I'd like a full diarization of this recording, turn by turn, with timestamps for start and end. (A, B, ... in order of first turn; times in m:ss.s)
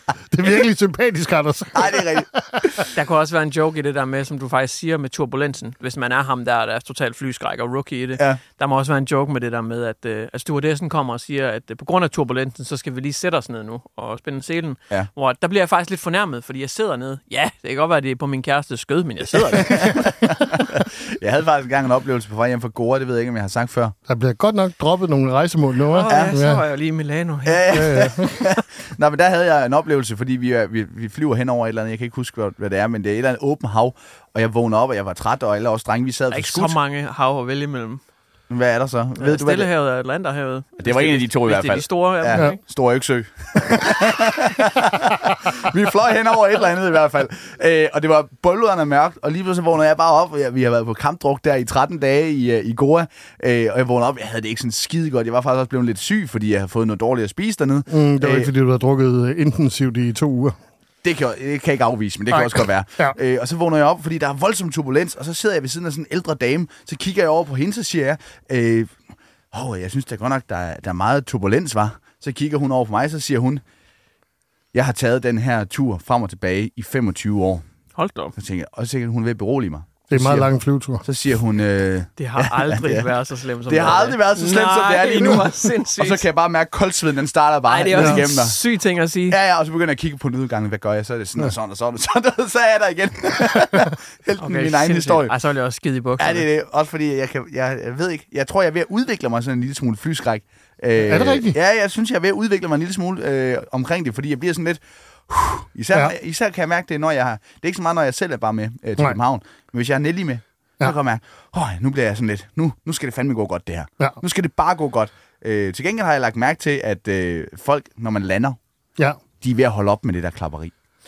0:00.3-0:02.7 A
0:01.8-0:02.3 B
0:02.9-0:20.0 C
0:19.6-0:23.9 B
0:24.1-0:26.6 A
0:25.9-0:28.1 C
0:27.5-0:36.8 B
0:27.7-0:28.4 A
0:36.3-0:38.0 C
0:38.5-0:39.7 B
0:39.2-0:42.6 C
0:40.8-0:58.5 B
0:57.9-1:00.6 A
1:01.0-1:08.9 B
1:02.3-1:03.2 A
1:09.5-1:13.6 B
1:14.7-1:17.6 B
1:18.0-1:18.3 C
1:18.4-1:23.1 B
1:20.1-1:21.0 A
1:22.2-1:26.2 C
1:23.7-1:28.6 B
1:27.7-1:29.4 C
1:29.3-1:35.3 B
1:34.4-1:36.5 C
1:36.2-1:58.6 B
1:41.0-1:41.6 A
1:59.4-2:00.7 B